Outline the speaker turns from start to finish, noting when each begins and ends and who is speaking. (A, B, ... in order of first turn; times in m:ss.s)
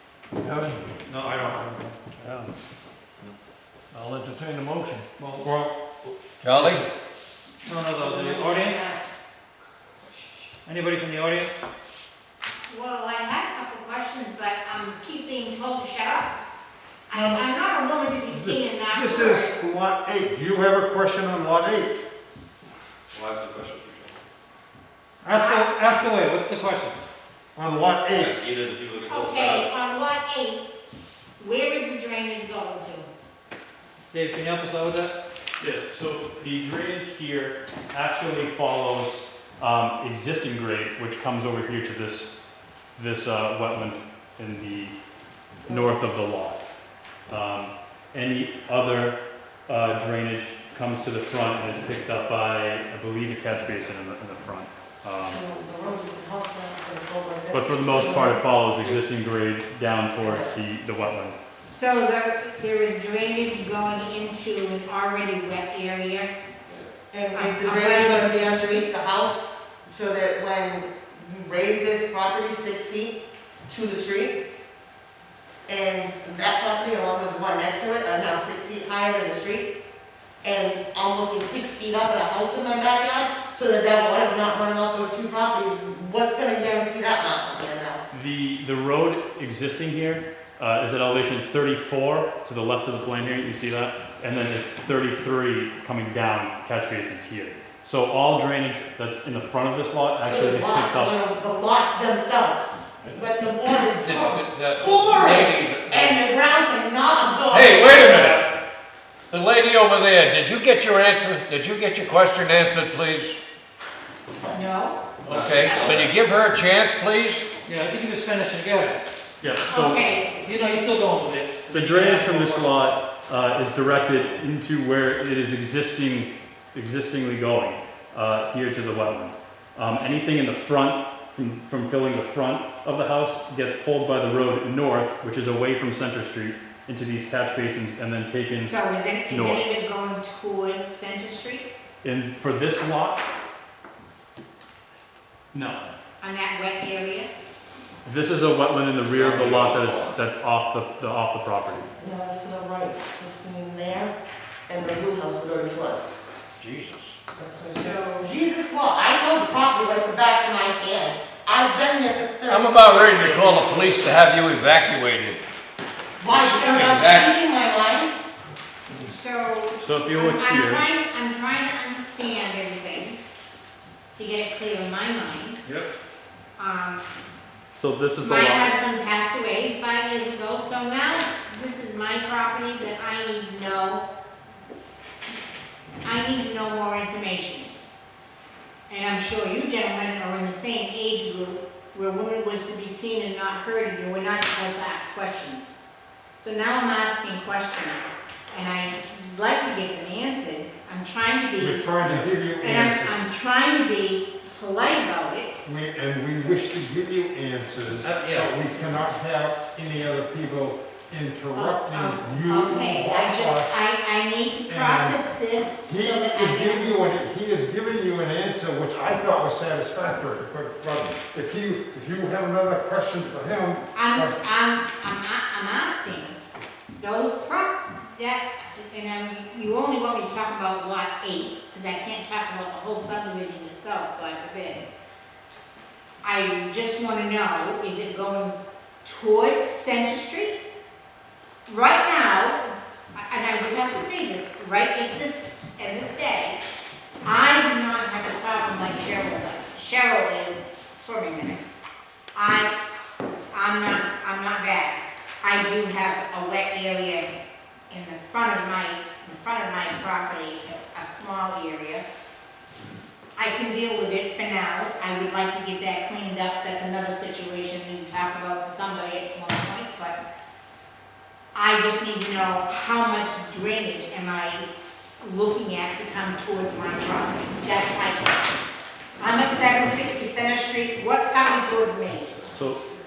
0:00.4-0:00.8 A
0:01.1-0:02.1 B
0:03.9-0:05.1 A
0:05.2-0:05.5 B
0:05.4-0:06.9 C
0:06.4-0:06.8 A
0:07.6-0:08.8 B
0:08.0-0:09.0 D
0:10.6-0:11.5 B
0:12.7-0:16.4 E
0:17.1-0:19.6 E
0:17.2-0:17.4 C
0:18.3-0:22.0 C
0:23.1-0:24.1 F
0:25.2-0:27.0 B
0:25.3-0:25.8 E
0:27.6-0:28.4 C
0:28.2-0:29.6 A
0:28.3-0:29.5 F
0:29.1-0:30.7 E
0:31.4-0:33.1 E
0:34.1-0:35.1 B
0:35.6-0:42.3 G
0:43.0-0:45.0 G
0:45.6-0:46.6 G
0:45.7-0:46.0 D
0:47.3-0:55.4 G
0:55.2-0:58.4 D
0:57.5-1:01.4 G
1:00.2-1:00.5 D
1:01.6-1:06.3 E
1:07.1-1:14.4 D
1:07.3-1:08.8 E
1:15.7-1:19.7 D
1:20.4-1:28.0 D
1:28.1-1:41.2 G
1:40.2-1:48.5 D
1:43.9-1:46.2 A
1:47.5-1:48.5 A
1:49.3-1:53.4 A
1:54.5-1:55.0 E
1:55.2-1:57.5 A
1:55.3-1:56.1 B
1:57.6-1:59.0 B
1:59.4-2:00.0 G
1:59.7-2:00.3 E
2:00.3-2:02.8 B
2:01.7-2:18.8 G
2:18.6-2:21.7 E
2:19.3-2:19.6 G
2:22.0-2:23.2 G
2:25.5-2:25.9 G
2:26.2-2:27.3 E
2:28.0-2:31.9 G
2:29.1-2:30.2 A
2:32.0-2:34.2 D
2:34.7-2:36.1 D
2:36.6-2:37.2 A
2:37.4-2:43.8 D
2:37.7-2:38.3 E
2:42.5-2:45.4 A
2:46.2-2:48.2 D
2:46.3-2:47.4 A
2:49.0-2:53.2 E
2:49.8-2:50.9 G
2:54.2-2:55.6 E
2:56.6-2:57.0 E
2:57.8-2:58.8 G
2:58.2-3:04.0 E
3:06.0-3:07.7 E
3:08.9-3:15.8 E
3:16.4-3:21.9 E
3:21.6-3:23.3 C
3:22.0-3:22.3 B
3:22.6-3:25.5 E
3:25.6-3:33.8 C
3:28.0-3:28.6 B
3:31.5-3:37.0 E
3:34.7-3:35.2 C
3:35.8-3:44.4 C
3:44.0-3:46.4 E
3:47.0-3:54.8 E
3:56.2-4:00.6 E
4:01.7-4:06.6 E
4:07.2-4:11.6 E
4:12.4-4:12.7 E
4:13.5-4:17.3 E
4:17.9-4:22.0 E
4:23.4-4:30.2 E
4:31.6-4:34.7 E
4:35.2-4:38.5 E
4:39.2-4:42.4 E
4:42.5-4:42.8 G